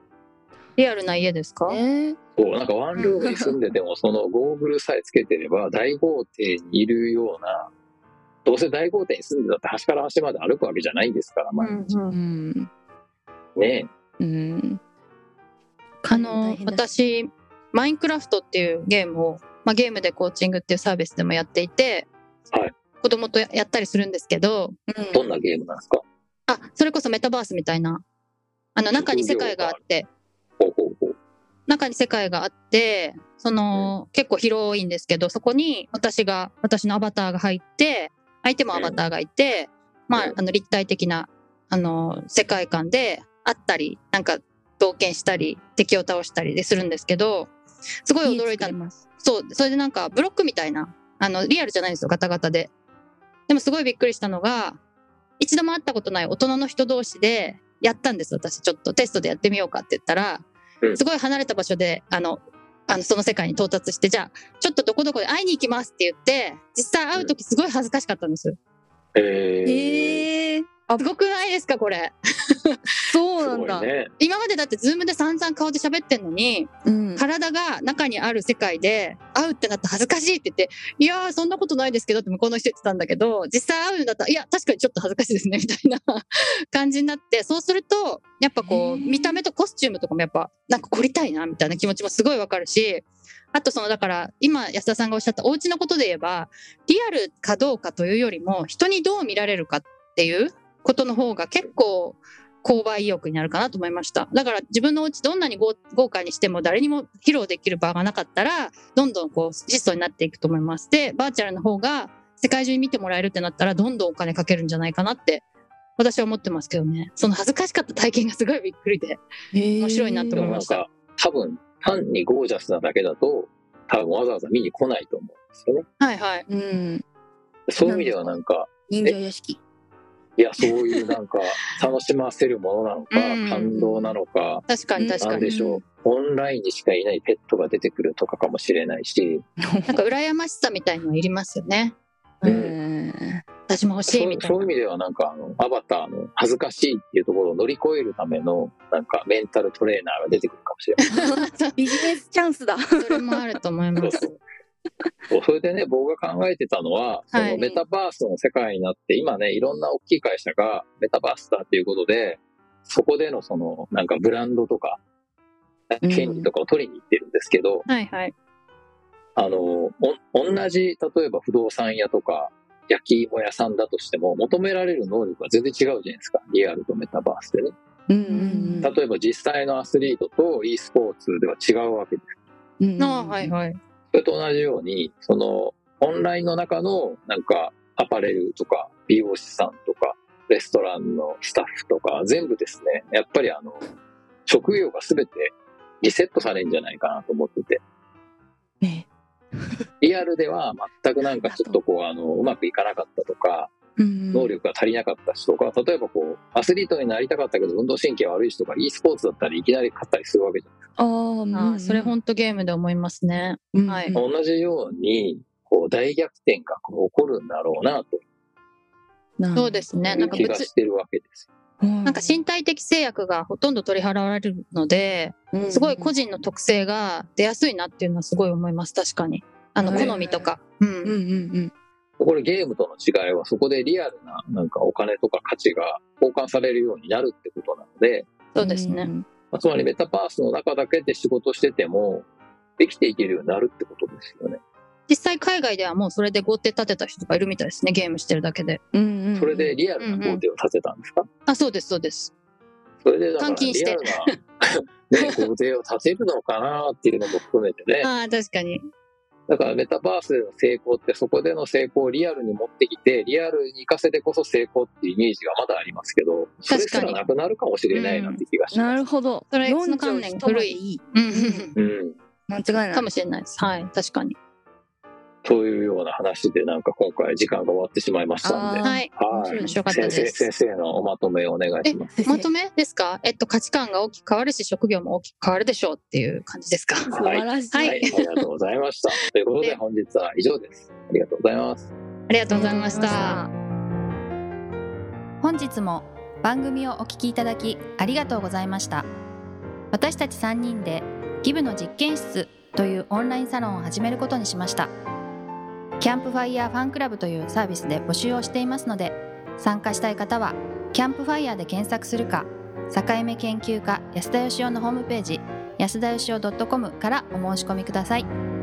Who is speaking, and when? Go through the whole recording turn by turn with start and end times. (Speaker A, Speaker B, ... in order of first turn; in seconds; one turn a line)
Speaker A: 0.8-1.8
Speaker B: 1.7-2.2
Speaker C: 2.4-7.7
Speaker B: 3.2-3.5
Speaker C: 8.4-11.9
Speaker A: 11.6-12.2
Speaker B: 12.1-12.7
Speaker C: 13.6-13.9
Speaker B: 14.2-14.8
Speaker A: 16.0-22.1
Speaker B: 16.1-16.8
Speaker A: 23.0-24.8
Speaker B: 24.9-25.3
Speaker C: 25.1-26.0
Speaker A: 26.5-28.0
Speaker A: 28.8-30.1
Speaker C: 28.9-29.8
Speaker C: 30.6-31.1
Speaker A: 31.7-47.5
Speaker C: 38.7-39.0
Speaker A: 48.0-52.7
Speaker B: 48.2-49.0
Speaker A: 53.5-54.8
Speaker A: 55.4-68.6
Speaker C: 69.1-70.3
Speaker B: 69.6-71.0
Speaker A: 71.0-72.1
Speaker A: 72.6-72.9
Speaker B: 73.0-73.9
Speaker C: 73.4-74.1
Speaker A: 74.2-115.4
Speaker B: 76.8-77.2
Speaker B: 88.6-89.4
Speaker A: 116.0-119.2
Speaker B: 119.5-120.6
Speaker A: 119.8-120.8
Speaker C: 120.3-125.8
Speaker A: 126.0-126.4
Speaker B: 126.5-127.0
Speaker C: 127.7-129.2
Speaker B: 127.8-128.4
Speaker B: 128.9-129.6
Speaker C: 130.4-134.7
Speaker A: 133.1-134.0
Speaker A: 134.7-135.5
Speaker B: 135.0-135.8
Speaker C: 135.2-139.4
Speaker B: 139.7-140.0
Speaker A: 139.9-142.6
Speaker B: 142.4-143.4
Speaker C: 142.4-142.8
Speaker A: 143.7-144.6
Speaker C: 144.1-151.1
Speaker A: 151.1-151.8
Speaker B: 151.8-153.4
Speaker A: 153.0-154.3
Speaker C: 154.0-154.4
Speaker C: 155.3-165.0
Speaker A: 157.3-157.7
Speaker B: 157.5-157.8
Speaker C: 165.9-167.8
Speaker B: 166.0-166.5
Speaker A: 167.9-168.3
Speaker C: 169.3-177.7
Speaker B: 178.1-178.9
Speaker A: 178.3-178.9
Speaker C: 178.8-182.4
Speaker B: 182.8-183.5
Speaker A: 183.0-183.8
Speaker C: 184.1-193.8
Speaker C: 194.4-197.8
Speaker B: 198.8-199.1
Speaker B: 199.6-199.8
Speaker C: 200.0-203.7
Speaker B: 201.2-201.8
Speaker B: 204.0-204.5
Speaker C: 204.3-210.7
Speaker B: 211.0-212.1
Speaker A: 211.5-214.2
Speaker B: 213.7-214.2
Speaker C: 214.1-218.2
Speaker B: 219.4-220.6
Speaker A: 219.5-220.7
Speaker C: 220.0-221.5
Speaker B: 221.8-222.4
Speaker A: 222.0-231.1
Speaker B: 225.5-226.1
Speaker B: 229.8-230.5
Speaker C: 229.9-230.2
Speaker B: 231.0-231.7
Speaker C: 232.2-238.3
Speaker A: 238.5-239.1
Speaker B: 238.6-239.2
Speaker C: 239.5-242.3
Speaker C: 242.8-244.6
Speaker A: 245.1-248.8
Speaker B: 248.9-249.7
Speaker C: 249.3-251.2
Speaker A: 250.0-250.4
Speaker A: 251.5-252.3
Speaker C: 253.0-258.1
Speaker A: 253.4-254.3
Speaker A: 255.2-255.4
Speaker A: 258.0-258.8
Speaker C: 259.5-269.0
Speaker A: 266.7-267.2
Speaker A: 267.9-268.4
Speaker B: 268.7-271.7
Speaker A: 269.5-271.7
Speaker C: 271.8-272.2
Speaker B: 272.5-273.1
Speaker A: 272.9-274.4
Speaker C: 275.4-282.2
Speaker B: 278.4-280.2
Speaker A: 278.8-280.5
Speaker A: 281.8-287.1
Speaker B: 282.2-282.5
Speaker B: 287.1-288.1
Speaker C: 287.1-291.9
Speaker A: 287.7-288.2
Speaker A: 292.3-293.4
Speaker B: 292.5-293.5
Speaker D: 295.4-299.1
Speaker D: 299.9-304.9
Speaker D: 306.0-318.3